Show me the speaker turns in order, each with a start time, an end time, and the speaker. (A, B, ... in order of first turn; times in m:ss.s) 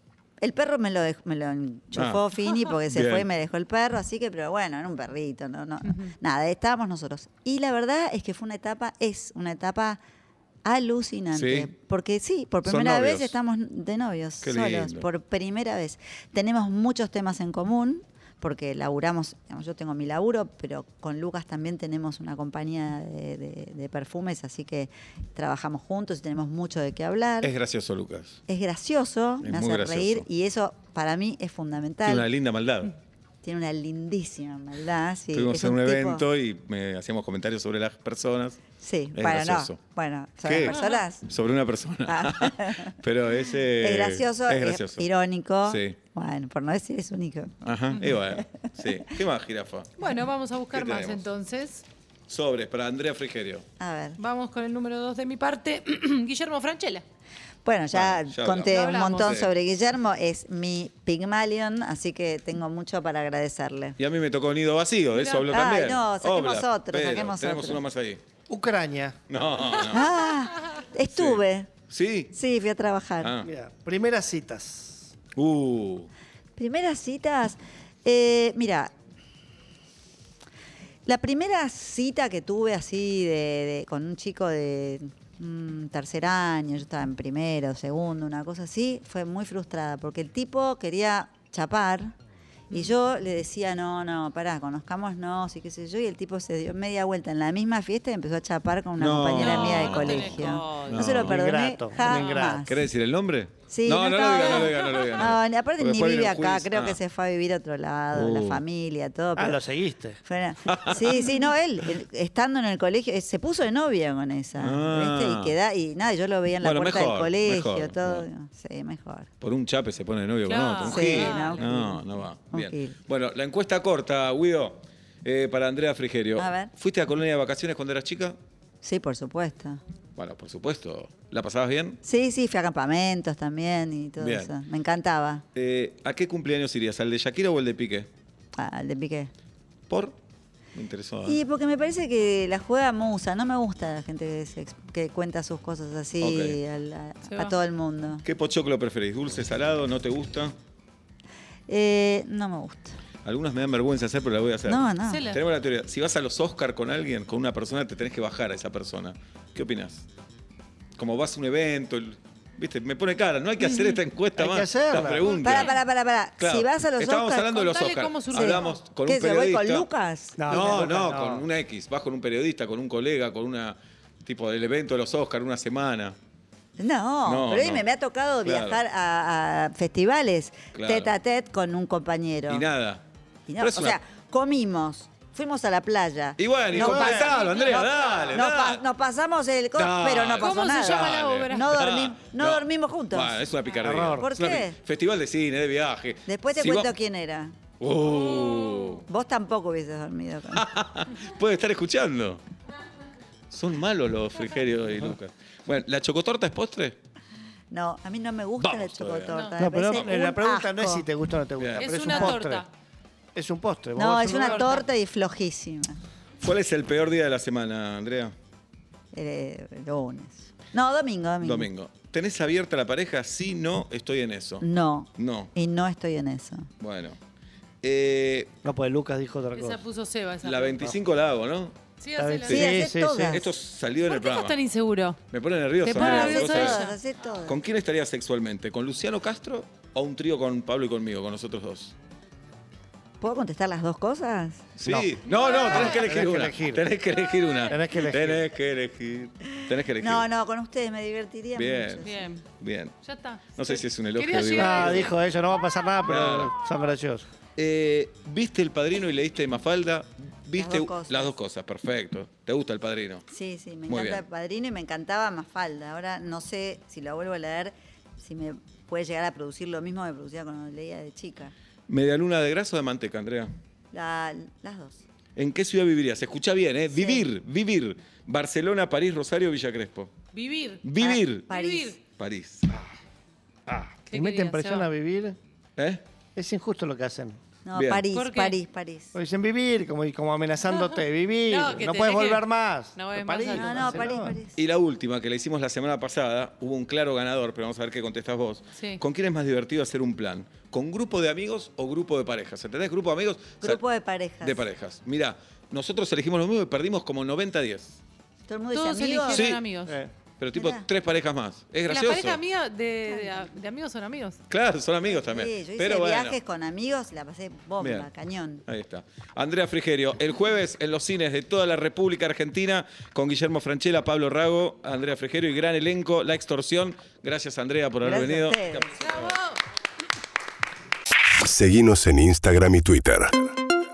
0:00.4-0:10.0 A
0:01.9-0:02.2 B
0:02.9-0:03.3 B
0:10.6-0:27.5 A
0:11.3-0:11.7 B
0:12.6-0:13.4 B
0:14.4-0:15.1 B
0:27.4-0:28.4 B
0:28.5-0:32.3 A
0:29.4-0:30.3 B
0:32.0-0:33.0 B
0:33.4-0:36.2 A
0:35.3-0:38.6 B
0:38.8-0:41.2 A
0:39.2-0:39.8 B
0:40.4-0:45.1 B
0:42.1-0:43.0 A
0:43.6-0:48.9 A
0:45.6-0:46.0 B
0:47.6-0:50.1 B
0:50.0-0:51.8 C
0:50.7-0:51.2 B
0:52.3-0:53.6 B
0:53.8-0:54.2 A
0:54.2-0:57.0 C
0:57.6-1:04.0 A
0:57.9-0:59.5 B
0:58.6-0:59.4 C
1:04.0-1:08.2 B
1:05.2-1:05.5 C
1:05.5-1:07.8 A
1:08.5-1:09.2 D
1:09.3-1:10.3 B
1:09.8-1:11.7 A
1:11.1-1:12.3 B
1:12.3-1:13.3 A
1:13.2-1:13.5 B
1:13.4-1:15.1 D
1:15.4-1:16.1 B
1:16.6-1:18.9 A
1:21.1-1:32.2 A
1:32.7-1:42.9 A
1:39.0-1:41.4 B
1:39.4-1:41.0 C
1:41.1-1:42.7 D
1:42.0-1:42.5 C
1:42.6-1:47.0 B
1:43.7-1:49.6 A
1:44.4-1:45.2 C
1:48.1-1:48.6 B
1:49.4-1:50.2 D
1:50.2-1:59.3 A
1:50.7-1:51.4 B
1:54.6-1:55.6 B
1:56.6-1:58.3 B
1:59.4-2:08.4 B
2:00.4-2:01.7 C
2:00.8-2:03.0 A
2:06.4-2:06.7 A
2:08.8-2:09.8 A
2:10.2-2:12.0 B
2:12.0-2:15.4 A
2:14.2-2:14.5 B
2:15.6-2:18.1 B
2:18.6-2:19.3 A
2:19.9-2:20.2 B
2:20.7-2:21.4 B
2:21.2-2:28.2 A
2:26.2-2:26.6 B
2:27.3-2:27.6 C
2:28.2-2:30.6 B
2:31.7-2:33.0 A
2:33.2-2:40.1 B
2:34.7-2:35.2 A
2:35.1-2:35.4 C
2:41.0-2:45.8 B
2:44.4-2:45.3 D
2:45.3-2:45.7 C
2:45.4-2:47.7 A
2:46.4-2:49.9 B
2:47.6-2:48.8 C
2:48.3-2:50.9 A
2:50.4-2:51.4 D
2:50.5-2:56.2 B
2:56.8-3:02.6 A
2:57.2-2:57.9 B
2:58.4-2:58.8 B
3:00.7-3:01.1 B
3:02.5-3:03.0 B
3:03.5-3:13.4 A
3:03.6-3:04.0 B
3:06.4-3:08.8 B
3:06.7-3:07.3 D
3:07.1-3:08.3 C
3:09.8-3:16.9 B
3:10.4-3:11.7 C
3:13.8-3:14.3 D
3:14.2-3:14.8 A
3:16.3-3:17.6 A
3:17.8-3:19.0 B
3:19.1-3:20.7 A
3:20.5-3:22.4 B
3:23.5-3:27.0 B
3:27.7-3:31.1 A
3:28.6-3:29.5 B
3:29.3-3:29.6 C
3:29.6-3:32.6 D
3:31.6-3:31.9 B
3:31.8-3:32.7 C
3:32.1-3:32.4 A
3:33.4-3:34.8 D
3:34.0-3:36.0 A
3:34.4-3:34.8 C
3:36.4-3:38.4 B
3:39.1-3:41.7 A
3:41.4-3:44.6 B
3:44.6-3:46.7 A
3:45.2-3:45.5 B
3:46.8-3:47.2 B
3:47.8-3:48.5 B
3:48.6-3:49.8 D
3:49.6-3:50.9 C
3:50.4-3:51.8 B
3:52.0-3:52.8 C
3:52.2-3:53.4 D
3:52.4-3:54.6 B
3:52.5-3:53.5 A
3:54.1-3:55.2 C
3:55.3-3:56.9 B
3:55.8-3:57.0 C
3:55.9-3:57.6 A
3:57.4-4:02.0 B
4:03.2-4:04.7 A
4:04.8-4:10.3 B
4:04.9-4:06.8 D
4:05.3-4:06.0 C
4:07.7-4:08.4 D
4:10.0-4:12.3 A
4:11.6-4:13.0 B
4:12.0-4:12.4 C
4:13.0-4:15.2 C
4:13.6-4:15.1 B
4:14.6-4:17.3 D
4:16.0-4:16.5 B
4:17.6-4:23.3 B
4:20.6-4:21.3 A
4:23.3-4:31.5 A
4:23.9-4:24.2 B
4:31.9-4:33.5 B
4:33.9-4:35.0 A
4:35.4-4:40.1 B
4:36.9-4:37.2 A
4:40.3-4:40.9 C
4:40.8-4:41.5 B
4:41.0-4:42.0 A
4:41.5-4:42.0 C
4:42.1-4:42.7 B
4:43.7-4:45.4 D
4:44.1-4:44.9 C
4:45.8-4:46.0 B
4:46.4-4:47.4 D
4:47.7-4:49.1 A
4:47.8-4:48.1 B
4:48.1-4:48.6 C
4:49.1-4:54.4 D
4:50.7-4:54.1 C
4:53.5-4:54.6 A
4:54.6-5:03.8 B
4:58.7-4:59.0 C
5:03.6-5:04.6 A
5:04.4-5:08.0 B
5:08.5-5:09.4 A
5:08.7-5:10.0 C
5:09.3-5:09.6 B
5:09.9-5:10.1 D
5:10.4-5:12.4 B
5:10.6-5:10.9 A
5:11.9-5:14.4 C
5:14.5-5:16.4 B
5:15.1-5:18.6 A
5:17.8-5:18.1 B
5:18.7-5:29.4 B
5:28.0-5:28.9 A
5:29.0-5:29.6 C
5:31.4-5:33.4 E